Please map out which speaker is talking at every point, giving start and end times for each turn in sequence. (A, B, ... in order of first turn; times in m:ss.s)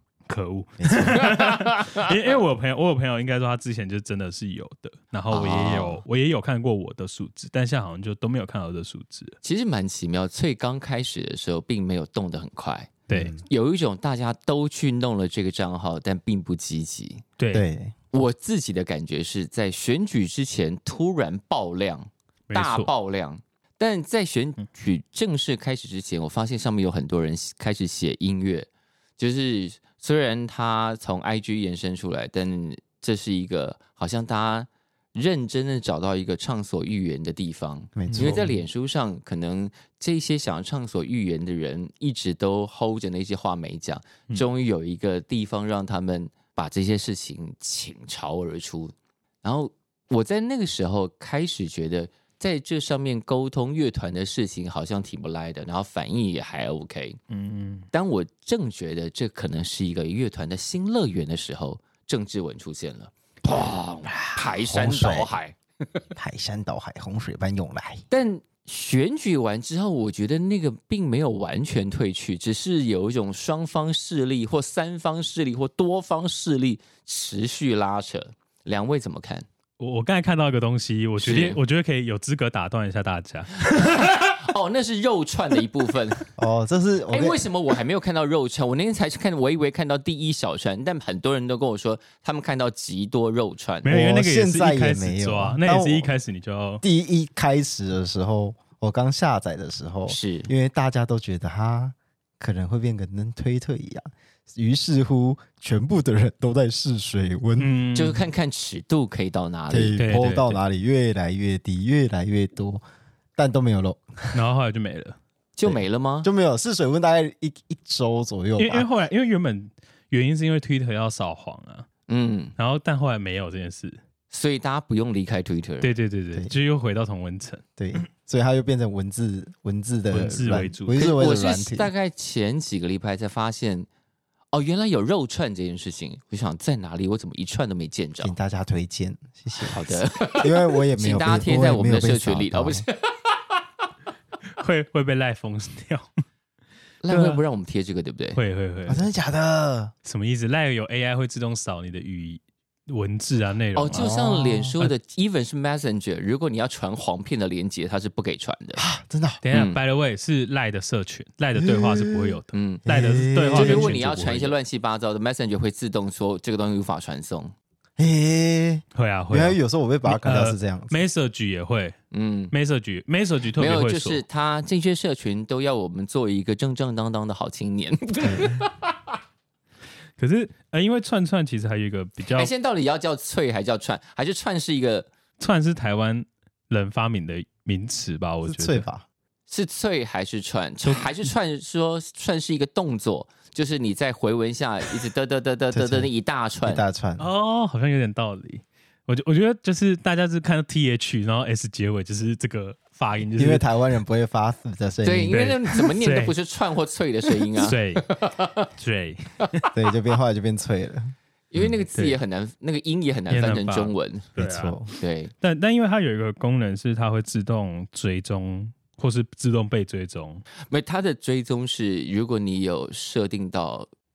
0:00.3-0:09.4 A
0:00.8-0:01.2 B
0:01.4-0:02.0 C
0:05.3-0:06.0 C
0:09.4-0:12.9 C
0:13.1-0:13.4 A
0:13.1-0:13.4 B
0:13.5-0:17.2 C
0:17.4-0:17.7 A
0:17.5-0:17.9 B
0:18.1-0:57.2 C
0:22.5-0:22.9 A
0:38.0-0:38.6 B
0:38.1-0:38.4 A
0:57.3-0:57.9 A
0:57.9-1:05.6 C
1:04.1-1:05.3 B
1:06.2-1:08.0 B
1:08.1-1:19.4 C
1:19.8-1:23.8 A
1:21.2-1:21.6 C
1:23.6-1:26.2 C
1:26.4-1:27.4 B
1:27.1-1:33.9 C
1:33.8-1:36.8 A
1:33.9-1:36.1 B
1:36.8-1:47.7 B
1:40.1-1:40.5 C
1:47.6-1:48.2 A
1:47.9-1:50.0 C
1:49.7-1:52.8 B
1:50.0-1:50.6 A
1:53.4-1:54.4 B
1:54.3-1:55.2 A
1:55.6-1:56.3 C
1:55.6-1:58.9 B
1:58.6-2:01.9 A
2:02.1-2:02.5 C
2:02.6-2:04.0 A
2:04.3-2:05.9 C
2:05.8-2:08.0 A
2:06.3-2:06.6 B
2:07.8-2:11.9 B
2:10.1-2:11.1 A
2:11.0-2:13.9 C
2:14.5-2:18.4 C
2:18.2-2:22.8 B
2:19.7-2:23.0 C
2:24.6-2:26.1 A
2:27.0-2:28.4 C
2:27.1-2:27.4 A
2:28.3-2:29.1 A
2:28.9-2:29.9 B
2:30.0-2:34.0 A
2:33.8-2:38.8 C
2:33.9-2:34.7 B
2:38.8-2:39.4 B
2:39.4-2:44.6 A
2:39.5-2:39.8 C
2:41.6-2:44.0 B
2:42.5-2:42.8 C
2:43.5-2:47.5 C
2:48.0-2:51.0 B
2:48.9-2:52.0 A
2:52.1-2:52.5 C
2:52.5-2:54.2 A
2:53.6-2:58.9 C
2:58.2-2:58.6 B
3:00.2-3:02.5 A
3:02.3-3:05.1 C
3:05.4-3:08.9 A
3:08.4-3:09.0 B
3:09.5-3:16.8 C
3:15.7-3:16.1 B
3:16.7-3:17.3 B
3:17.2-3:23.6 A
3:23.4-3:25.4 B
3:25.0-3:28.7 C
3:25.3-3:26.4 A
3:27.6-3:28.0 A
3:28.8-3:29.7 A
3:29.7-3:31.1 B
3:31.5-3:34.3 C
3:31.9-3:32.2 A
3:33.3-3:34.8 A
3:34.4-3:34.9 B
3:35.0-3:35.3 C
3:35.4-3:40.4 A
3:40.7-3:43.9 C